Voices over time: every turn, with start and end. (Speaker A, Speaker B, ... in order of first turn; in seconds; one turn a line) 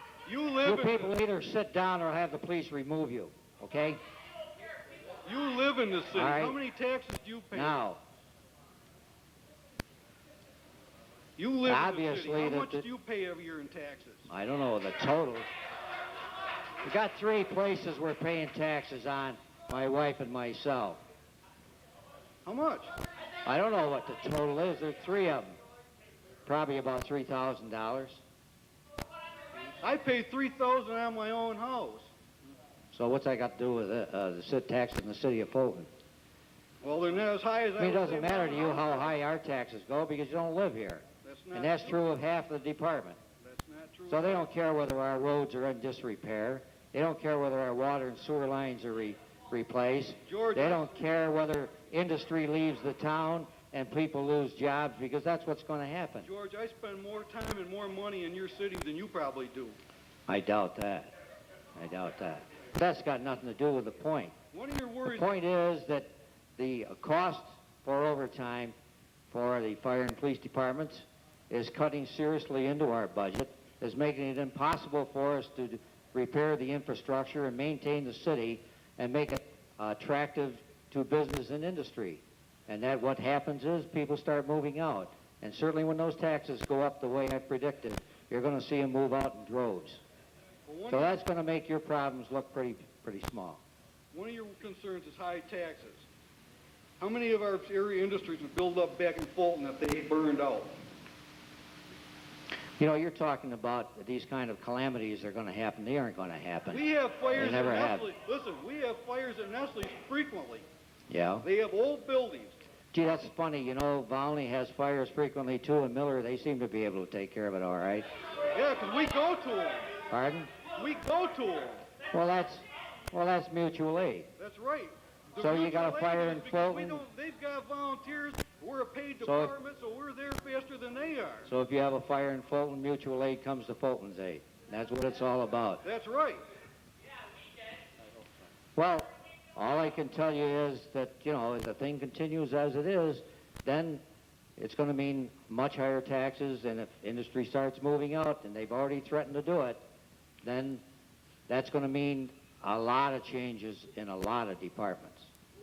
Speaker A: 0.3-1.1
Speaker B: 0.6-4.0
Speaker A: 5.2-7.8
Speaker B: 6.1-6.6
Speaker B: 7.5-8.0
Speaker A: 11.4-14.3
Speaker B: 11.7-12.8
Speaker B: 14.3-15.5
Speaker B: 16.8-21.0
Speaker A: 22.5-22.9
Speaker B: 23.5-25.6
Speaker B: 26.5-28.2
Speaker A: 29.8-32.1
Speaker B: 32.9-35.9
Speaker A: 36.8-39.1
Speaker B: 37.8-43.2
Speaker A: 41.2-42.0
Speaker A: 43.4-44.5
Speaker B: 44.1-56.3
Speaker A: 50.3-50.9
Speaker A: 56.2-59.8
Speaker B: 60.3-61.1
Speaker B: 61.8-64.3
Speaker A: 64.5-65.3
Speaker B: 65.0-68.8
Speaker B: 69.3-90.0
Speaker A: 90.7-91.2
Speaker B: 90.9-93.6
Speaker A: 94.1-96.0
Speaker A: 97.0-100.7
Speaker B: 102.8-108.1
Speaker A: 106.7-110.7
Speaker B: 111.1-111.5
Speaker A: 111.4-112.6
Speaker B: 112.9-118.1
Speaker A: 118.5-119.9
Speaker B: 120.1-120.5
Speaker A: 120.8-121.9
Speaker B: 122.1-124.3
Speaker A: 124.4-131.5
Speaker B: 125.4-127.0
Speaker B: 129.2-129.5
Speaker B: 131.5-135.8
Speaker A: 135.8-136.4
Speaker B: 138.8-144.0
Speaker B: 144.6-149.8
Speaker B: 150.4-150.8
Speaker B: 151.5-155.3